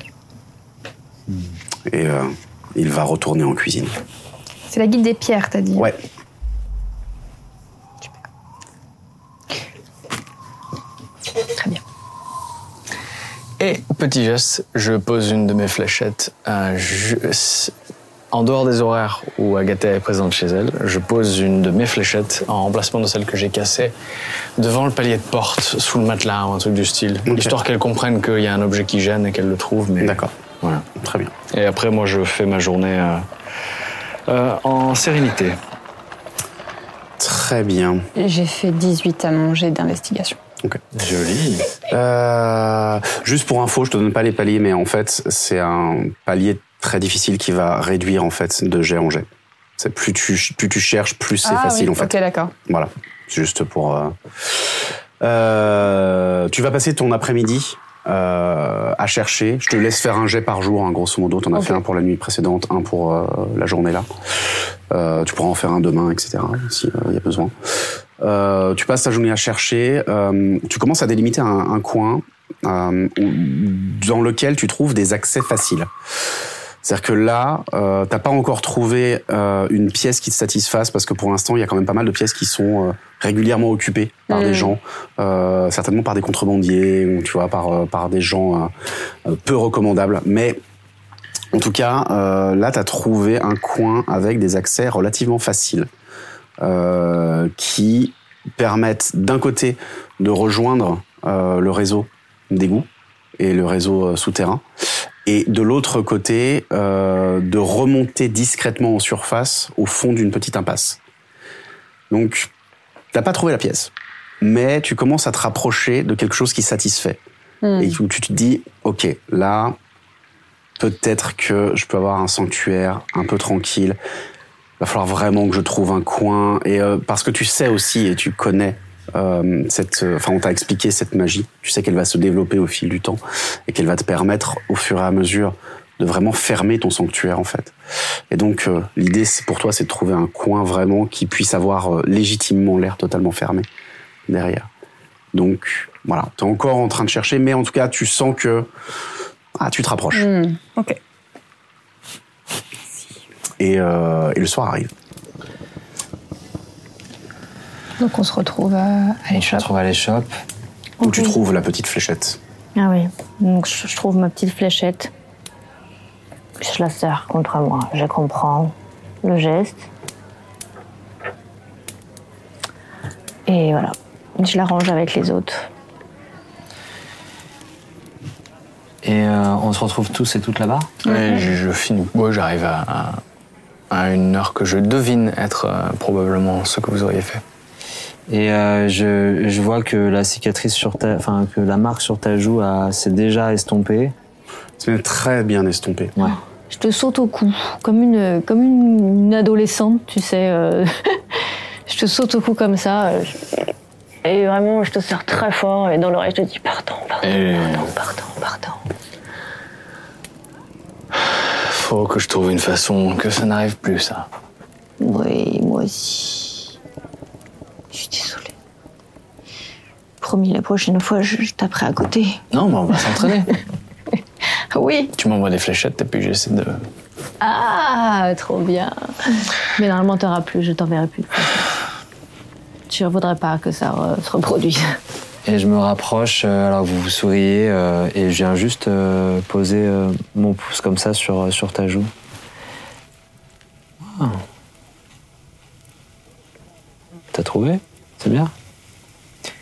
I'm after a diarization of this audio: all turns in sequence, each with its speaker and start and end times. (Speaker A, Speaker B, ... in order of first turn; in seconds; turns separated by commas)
Speaker A: 1.9-4.0, Speaker B: 4.7-5.9, Speaker B: 11.5-11.8, Speaker C: 13.6-17.7, Speaker C: 18.3-23.9, Speaker C: 24.6-30.9, Speaker A: 27.3-27.6, Speaker A: 30.0-30.3, Speaker A: 30.9-31.3, Speaker C: 31.5-33.3, Speaker C: 34.3-35.6, Speaker A: 37.2-38.1, Speaker D: 38.2-40.4, Speaker E: 40.9-41.7, Speaker A: 41.9-49.3, Speaker A: 49.8-52.1, Speaker D: 51.5-52.5, Speaker A: 52.7-64.1, Speaker D: 61.5-61.8, Speaker A: 64.9-67.5, Speaker A: 68.2-75.9, Speaker A: 76.8-88.7, Speaker D: 84.3-84.8, Speaker A: 89.3-90.6, Speaker A: 91.5-95.9, Speaker A: 96.6-104.6, Speaker A: 105.3-111.0, Speaker A: 112.1-112.5, Speaker A: 113.1-117.2, Speaker D: 117.6-118.0, Speaker A: 117.8-119.8, Speaker A: 120.8-124.0, Speaker A: 124.8-137.7, Speaker A: 138.3-143.7, Speaker A: 144.3-144.7, Speaker A: 145.3-148.7, Speaker A: 149.6-150.3, Speaker D: 150.1-151.0, Speaker A: 153.6-154.9, Speaker B: 158.0-159.7, Speaker E: 159.3-160.3, Speaker F: 161.0-161.3, Speaker A: 161.0-162.4, Speaker F: 162.8-165.1, Speaker F: 166.6-169.9, Speaker F: 173.5-175.7, Speaker E: 179.0-180.9, Speaker C: 181.0-183.2, Speaker C: 183.9-187.4, Speaker E: 188.3-194.2, Speaker A: 194.8-196.2, Speaker F: 196.3-201.2, Speaker F: 201.9-203.5, Speaker F: 204.2-208.8, Speaker C: 207.2-207.9, Speaker C: 211.3-214.3, Speaker F: 215.0-216.7, Speaker F: 217.9-218.5, Speaker F: 220.2-222.4, Speaker C: 222.5-223.6, Speaker F: 224.7-225.1, Speaker C: 225.2-226.8, Speaker F: 227.4-231.7, Speaker F: 232.9-235.0, Speaker E: 235.4-242.1, Speaker E: 244.0-244.4, Speaker E: 247.3-248.5